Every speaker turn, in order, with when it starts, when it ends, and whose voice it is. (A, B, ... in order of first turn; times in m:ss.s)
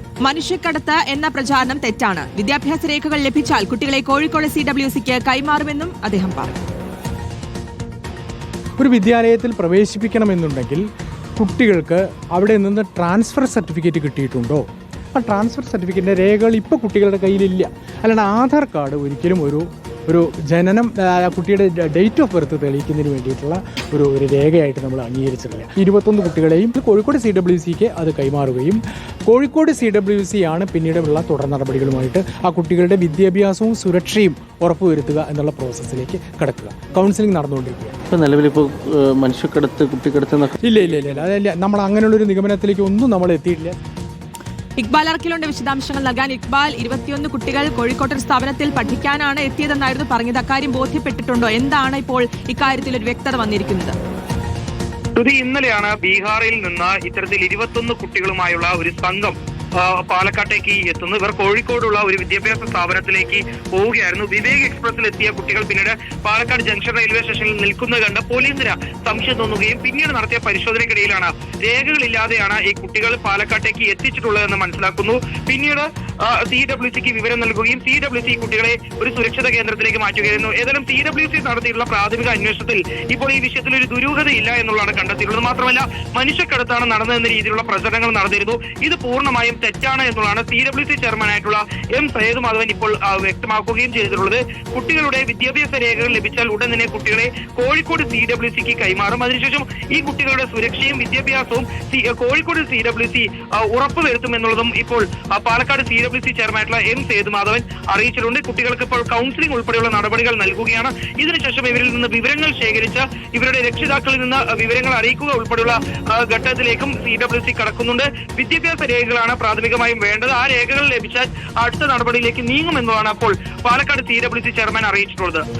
0:00.2-0:06.6 A
0:08.8-0:37.9 B
0:38.1-0:40.6 C
0:40.6-0:43.8 B
0:44.8-0:53.9 A
0:55.2-2:05.4 D